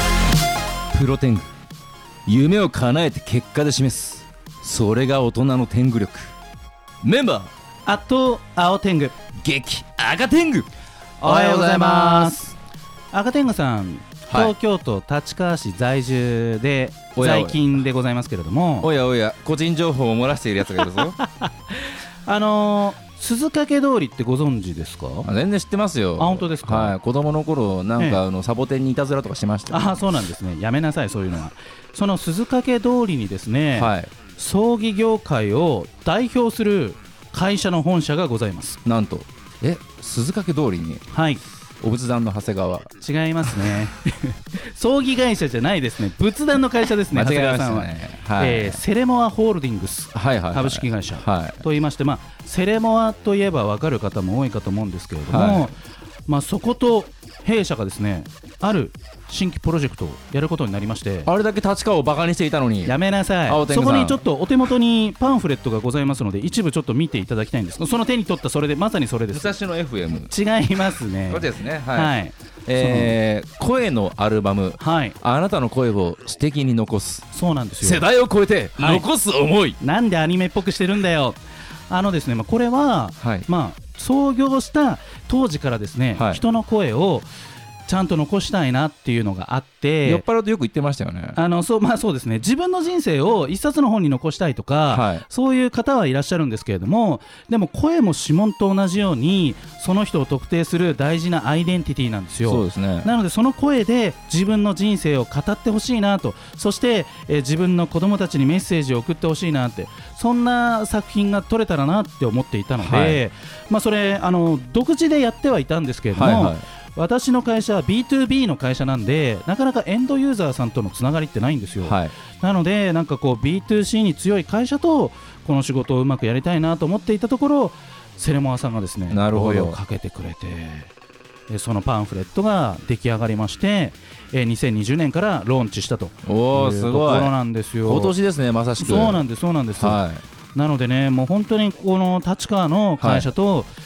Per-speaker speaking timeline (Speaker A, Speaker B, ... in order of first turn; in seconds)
Speaker A: 0.9-1.5, 2.2-6.3, 7.0-7.5, 9.4-10.7, 11.2-12.5, 17.1-17.6, 18.8-21.1, 25.2-30.0, 33.7-34.1, 38.8-41.0, 41.8-42.9, 47.1-48.8, 50.1-51.6, 55.3-55.7, 61.2-63.0, 63.5-64.2, 69.3-70.3, 71.3-72.1, 72.7-77.3, 77.8-79.8, 83.2-83.5, 86.2-86.4, 90.0-91.4, 94.9-95.2, 102.5-103.1, 112.8-113.2, 116.1-116.6, 121.8-122.1, 129.1-129.8, 136.2-137.3, 137.8-139.2, 139.8-140.2, 143.0-143.3
Speaker B: 7.8-9.1, 11.2-12.4, 13.1-18.9, 20.8-21.5, 22.2-25.3, 26.2-26.9, 29.7-38.8, 41.1-41.4, 43.0-55.8, 56.3-61.3, 62.9-69.6, 70.3-73.1, 74.8-75.2, 77.3-78.1, 78.8-79.0, 79.8-81.4, 81.9-87.3, 87.9-90.2, 91.3-130.9, 131.5-138.1, 138.8-140.0, 140.5-143.7